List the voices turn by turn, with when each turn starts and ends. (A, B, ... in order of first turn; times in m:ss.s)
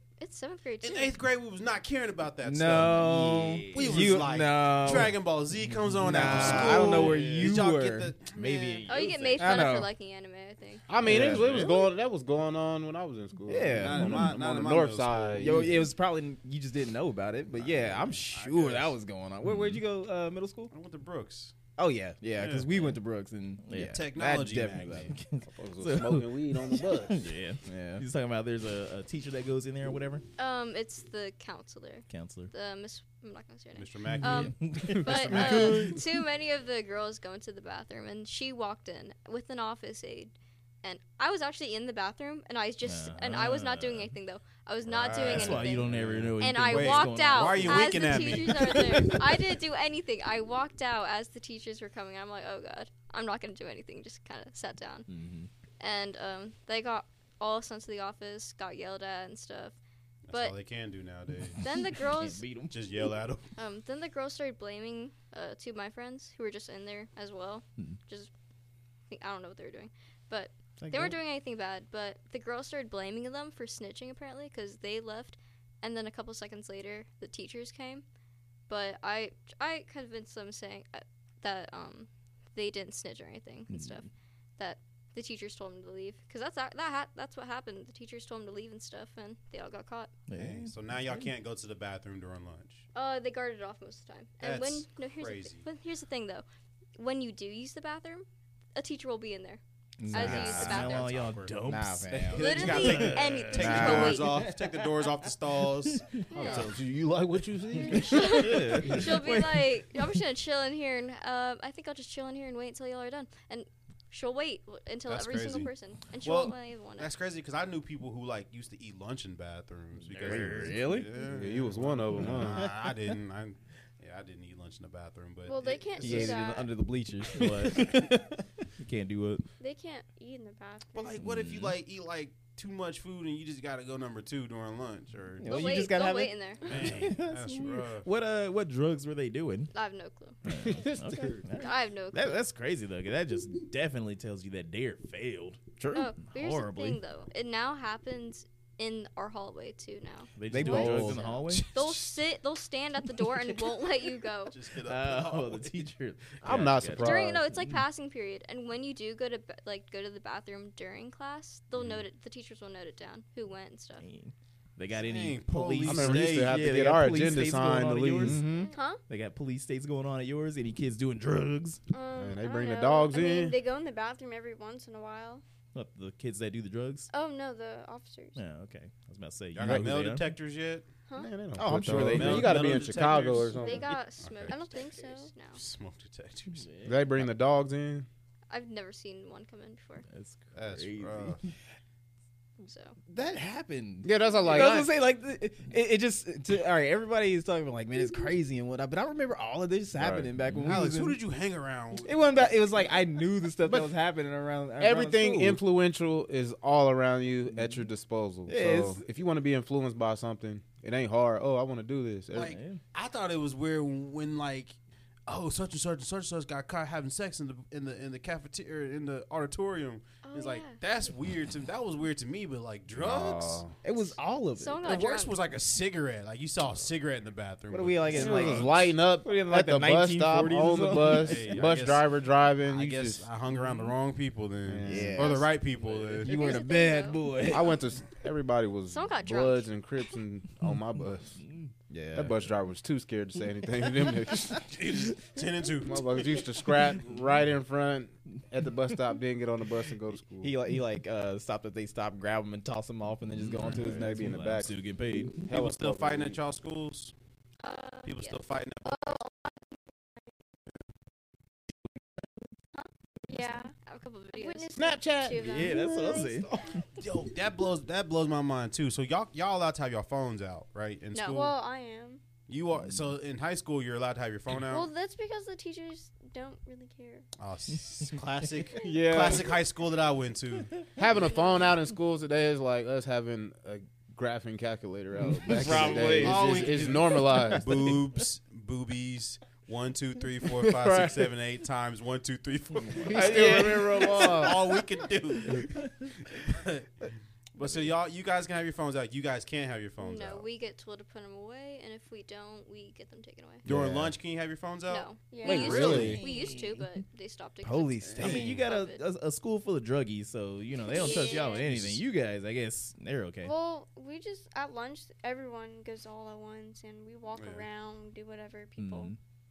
0:00.2-0:01.2 A
0:00.8-0:03.0 B
0:02.4-0:05.2 C
0:02.7-0:04.2 D
0:03.7-0:08.9 B
0:06.0-0:08.1 C
0:06.1-0:07.6 D
0:06.4-0:07.0 E
0:08.3-0:09.7 D
0:08.9-0:10.9 A
0:09.4-0:09.9 C
0:10.9-0:15.8 E
0:11.0-0:11.8 B
0:11.0-0:11.7 C
0:13.5-0:14.2 C
0:13.7-0:15.7 B
0:15.4-0:20.7 C
0:17.5-0:18.9 B
0:19.4-0:19.8 D
0:20.7-0:21.5 B
0:21.8-0:25.1 C
0:22.4-0:22.7 B
0:23.6-0:24.0 D
0:23.8-0:25.1 B
0:25.1-0:30.2 D
0:25.5-0:27.3 E
0:27.6-0:28.0 C
0:30.4-0:55.1 A
0:32.1-0:32.5 D
0:33.8-0:34.6 B
0:34.1-0:35.9 D
0:42.8-0:44.1 D
0:44.8-0:49.2 B
0:45.2-0:49.1 D
0:55.1-0:55.5 D
0:55.8-0:59.8 A
1:00.3-1:01.6 B
1:00.3-1:00.6 A
1:01.6-1:02.4 A
1:02.1-1:02.7 D
1:02.7-1:03.5 B
1:03.6-1:08.3 A
1:09.1-1:18.0 A
1:10.8-1:11.2 C
1:18.7-1:30.1 A
1:23.7-1:24.0 D
1:30.3-1:31.2 D
1:30.3-1:32.8 B
1:32.9-1:36.4 A
1:34.4-1:35.6 B
1:37.0-1:41.1 A
1:40.0-1:44.8 D
1:40.0-1:40.8 C
1:40.2-1:46.7 B
1:41.6-1:42.8 C
1:42.3-1:44.4 A
1:43.6-1:44.4 C
1:46.3-1:49.0 E
1:46.3-1:46.6 A
1:46.4-1:46.6 F
1:47.9-1:49.8 D
1:47.9-1:57.1 A
1:55.1-2:06.3 B
2:00.0-2:01.0 D
2:00.2-2:01.1 C
2:01.2-2:02.7 E
2:05.4-2:06.7 F
2:06.0-2:08.2 C
2:06.0-2:06.4 D
2:07.3-2:08.1 D
2:08.8-2:09.4 D
2:09.6-2:11.2 F
2:10.9-2:15.5 B
2:11.2-2:11.7 D
2:15.4-2:16.3 C
2:15.4-2:16.6 A
2:16.6-2:18.1 B
2:16.6-2:19.7 D
2:19.7-2:20.4 A
2:20.4-2:27.0 D
2:20.6-2:21.4 E
2:21.6-2:22.4 A
2:25.8-2:26.1 C
2:25.9-2:34.6 A
2:30.4-2:31.7 D
2:30.5-2:31.3 C
2:34.5-2:35.9 B
2:34.8-2:37.4 D
2:36.4-2:37.4 E
2:37.0-2:44.0 A
2:41.7-2:42.0 B
2:44.0-2:48.4 D
2:44.9-2:46.6 B
2:45.8-2:48.4 E
2:48.2-2:48.7 C
2:48.7-2:49.0 F
2:49.1-2:51.8 D
2:51.9-2:55.4 F
2:52.1-2:53.6 E
2:55.7-2:57.1 D
2:57.1-2:58.4 F
2:58.3-3:00.3 D
2:59.5-3:00.9 B
3:01.2-3:03.9 E
3:01.5-3:02.8 C
3:01.9-3:04.5 B
3:03.6-3:05.6 A
3:04.5-3:05.3 F
3:05.5-3:06.7 B
3:06.6-3:06.9 D
3:06.8-3:08.1 E
3:08.5-3:10.0 A
3:10.1-3:11.4 D
3:10.5-3:11.4 B
3:12.6-3:13.0 A
3:13.1-3:21.2 C
3:14.0-3:14.9 E
3:20.0-3:20.2 E
3:20.6-3:22.2 B
3:22.0-3:25.6 C
3:23.6-3:23.9 E
3:24.8-3:32.6 E
3:28.5-3:29.0 C
3:32.3-3:34.8 B
3:32.3-3:32.8 D
3:35.3-3:43.6 B
3:40.2-3:40.8 A
3:42.9-3:43.7 E
3:43.8-3:44.9 C
3:44.6-3:45.4 A
3:44.8-3:48.9 B
3:47.7-3:51.4 C
3:48.1-3:53.3 E
3:51.1-3:56.4 B
3:54.6-3:55.4 E
3:54.8-3:55.4 C
3:56.1-3:57.8 D
3:56.2-3:57.5 A
3:57.4-4:01.4 E
3:58.9-3:59.7 A
4:01.9-4:02.4 C
4:02.1-4:04.9 E
4:04.6-4:06.1 B
4:05.8-4:10.5 E
4:10.4-4:14.4 C
4:13.4-4:15.4 D
4:13.7-4:14.8 E
4:15.4-4:16.4 E
4:15.5-4:17.1 B
4:17.6-4:18.4 A
4:18.0-4:19.0 B
4:18.8-4:19.8 F
4:22.8-4:23.7 F
4:23.8-4:24.7 A
4:24.3-4:26.4 F
4:24.8-4:26.6 E
4:25.4-4:26.5 D
4:26.9-4:31.5 B
4:31.1-4:31.4 A
4:31.2-4:32.2 F
4:32.5-4:34.9 B
4:34.6-4:37.2 F
4:37.4-4:40.8 B
4:38.8-4:39.6 E
4:41.0-4:47.9 E
4:41.2-4:41.6 F
4:45.4-4:46.4 C
4:45.6-4:46.1 D
4:45.7-5:00.5 B
4:50.6-4:51.3 E
4:53.0-4:54.8 E
4:53.1-4:54.2 C
5:00.0-5:03.6 A
5:03.6-5:06.2 B
5:03.7-5:03.9 C
5:03.7-5:04.1 E
5:04.9-5:09.0 A
5:05.2-5:06.0 F
5:05.5-5:06.2 E
5:05.6-5:06.2 C
5:05.8-5:06.6 D
5:07.6-5:08.4 C
5:08.1-5:13.5 D
5:08.2-5:08.6 B
5:10.9-5:11.6 A
5:11.0-5:11.5 F
5:11.6-5:12.0 B
5:13.4-5:19.1 F
5:17.3-5:17.6 B
5:18.8-5:19.2 D